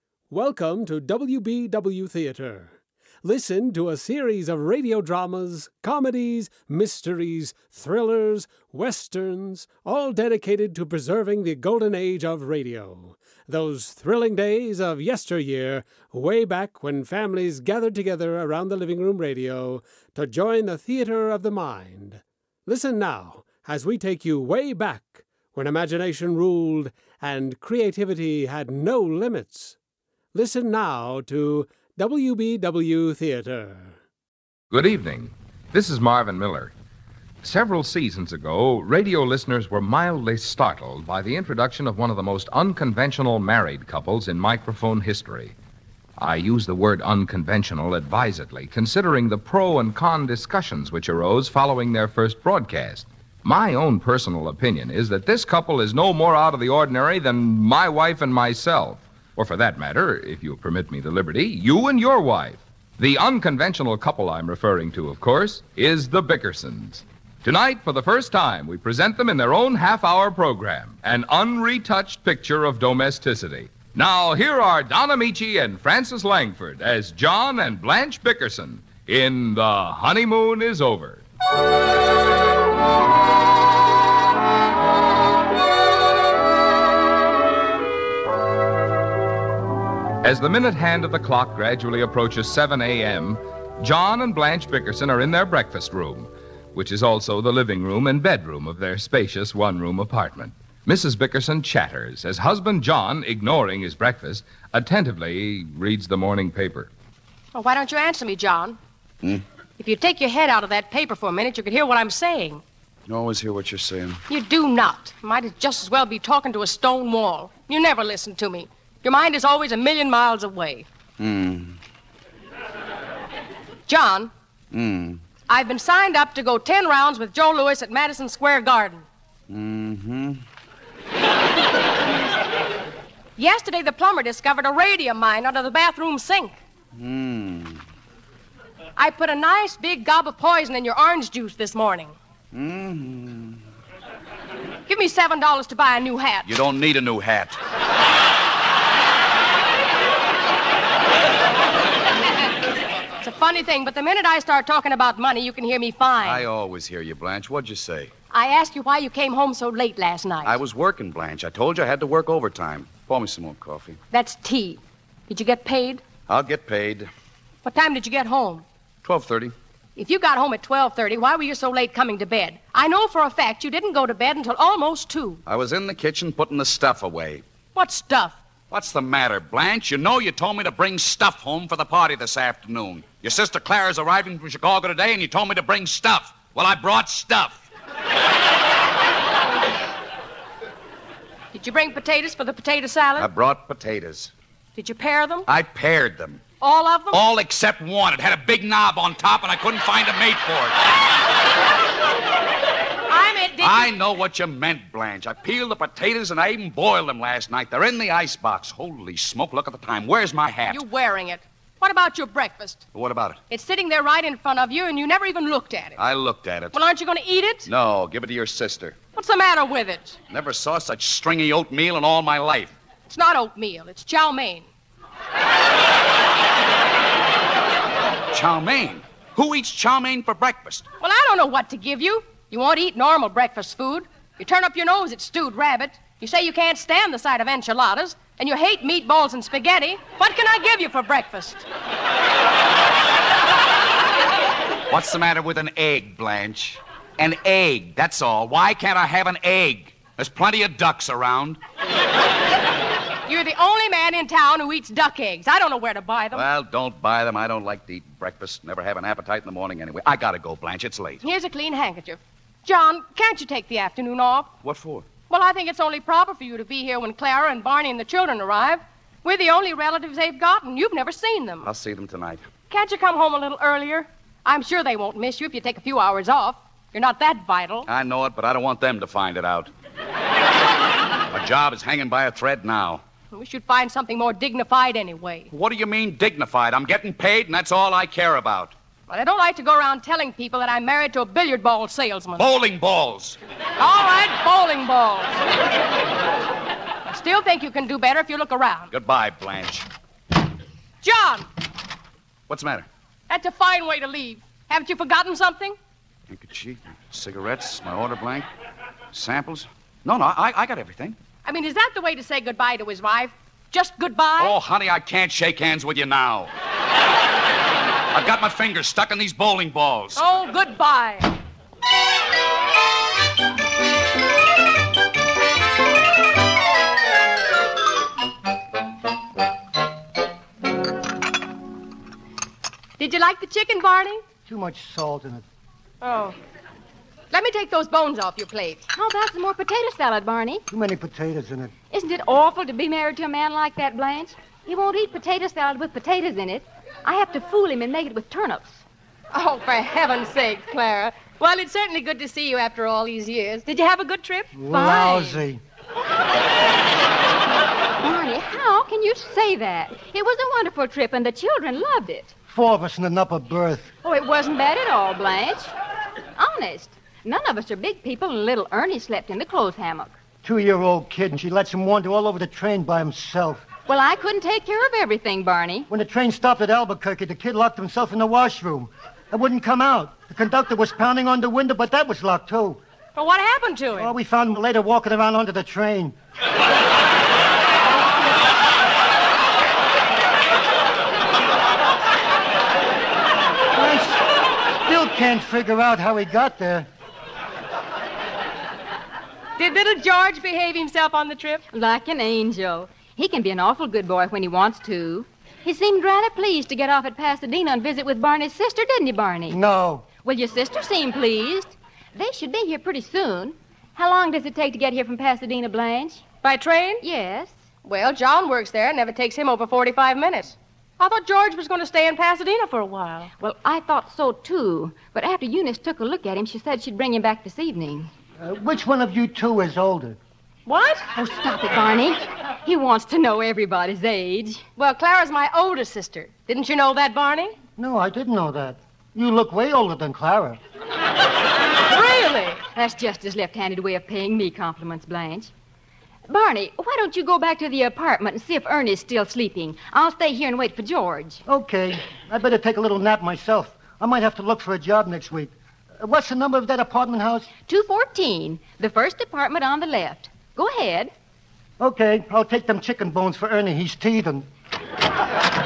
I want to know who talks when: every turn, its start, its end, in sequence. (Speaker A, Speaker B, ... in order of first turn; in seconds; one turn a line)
Speaker A: 0.3-29.8
Speaker A: 30.3-33.9
Speaker B: 34.7-36.7
Speaker B: 37.4-45.5
Speaker B: 46.2-81.2
Speaker B: 90.2-106.9
Speaker C: 107.5-108.8
Speaker C: 109.8-112.6
Speaker D: 113.1-114.2
Speaker C: 114.3-120.8
Speaker D: 121.2-121.8
Speaker C: 123.9-124.3
Speaker D: 124.7-125.2
Speaker C: 125.5-129.1
Speaker D: 129.5-130.4
Speaker C: 133.4-136.6
Speaker D: 136.9-137.8
Speaker C: 139.0-142.1
Speaker D: 142.5-143.6
Speaker C: 144.9-146.5
Speaker D: 146.4-147.6
Speaker C: 153.2-156.4
Speaker D: 156.2-158.1
Speaker C: 158.3-160.6
Speaker D: 160.4-164.0
Speaker C: 164.1-166.0
Speaker D: 166.3-167.1
Speaker C: 167.6-168.6
Speaker D: 169.0-169.5
Speaker C: 169.9-175.4
Speaker D: 175.4-177.4
Speaker C: 177.8-178.4
Speaker D: 178.7-187.7
Speaker C: 191.5-193.3
Speaker D: 193.2-194.3
Speaker C: 194.8-195.5
Speaker D: 195.5-196.4
Speaker C: 196.6-197.2
Speaker D: 197.1-200.8
Speaker C: 203.1-203.9
Speaker D: 203.6-210.8
Speaker C: 210.7-212.8
Speaker D: 212.9-213.4
Speaker C: 213.5-216.0
Speaker D: 216.0-216.8
Speaker C: 216.7-217.7
Speaker D: 217.7-219.0
Speaker C: 219.1-220.2
Speaker D: 220.3-222.7
Speaker C: 223.1-224.7
Speaker D: 228.3-230.9
Speaker C: 231.0-241.6
Speaker D: 244.9-251.6
Speaker C: 253.3-256.5
Speaker D: 256.3-261.2
Speaker C: 261.2-264.5
Speaker D: 264.6-265.1
Speaker C: 265.3-271.7
Speaker D: 271.6-272.4
Speaker C: 272.7-277.9
Speaker D: 277.9-279.7
Speaker D: 281.3-283.0
Speaker C: 283.3-285.5
Speaker D: 285.5-288.8
Speaker C: 289.1-292.5
Speaker D: 292.4-293.4
Speaker C: 293.8-295.4
Speaker C: 297.1-298.9
Speaker D: 298.9-299.9
Speaker C: 301.0-301.5
Speaker D: 302.5-302.9
Speaker C: 303.3-305.8
Speaker D: 306.3-308.5
Speaker D: 309.1-311.2
Speaker C: 311.4-314.6
Speaker D: 314.4-316.5
Speaker D: 318.1-320.2
Speaker C: 320.2-321.3
Speaker C: 333.0-334.2
Speaker E: 334.5-335.4
Speaker C: 336.0-336.4
Speaker C: 337.3-338.9
Speaker F: 338.9-340.6
Speaker E: 340.7-341.7
Speaker F: 341.9-348.8
Speaker C: 349.3-353.7
Speaker F: 353.7-355.4
Speaker E: 354.5-355.6
Speaker F: 358.0-362.3
Speaker E: 362.5-363.9
Speaker F: 364.0-365.7
Speaker F: 366.4-370.1
Speaker E: 370.4-373.7
Speaker F: 373.9-375.9
Speaker E: 375.9-382.8
Speaker C: 383.2-384.1
Speaker E: 384.0-386.2
Speaker E: 393.7-396.9
Speaker C: 399.6-401.6
Speaker F: 401.7-409.6
Speaker E: 409.5-410.1
Speaker F: 410.2-416.2
Speaker C: 416.4-417.0
Speaker F: 417.0-417.6
Speaker C: 417.8-423.3
Speaker F: 423.4-428.1
Speaker E: 428.4-430.2
Speaker C: 430.7-431.1
Speaker F: 431.2-434.6
Speaker C: 434.8-437.6
Speaker E: 437.8-440.6
Speaker C: 441.9-442.6
Speaker F: 442.8-445.5
Speaker F: 446.3-451.4
Speaker E: 451.5-457.5
Speaker F: 457.7-461.1
Speaker E: 461.8-464.5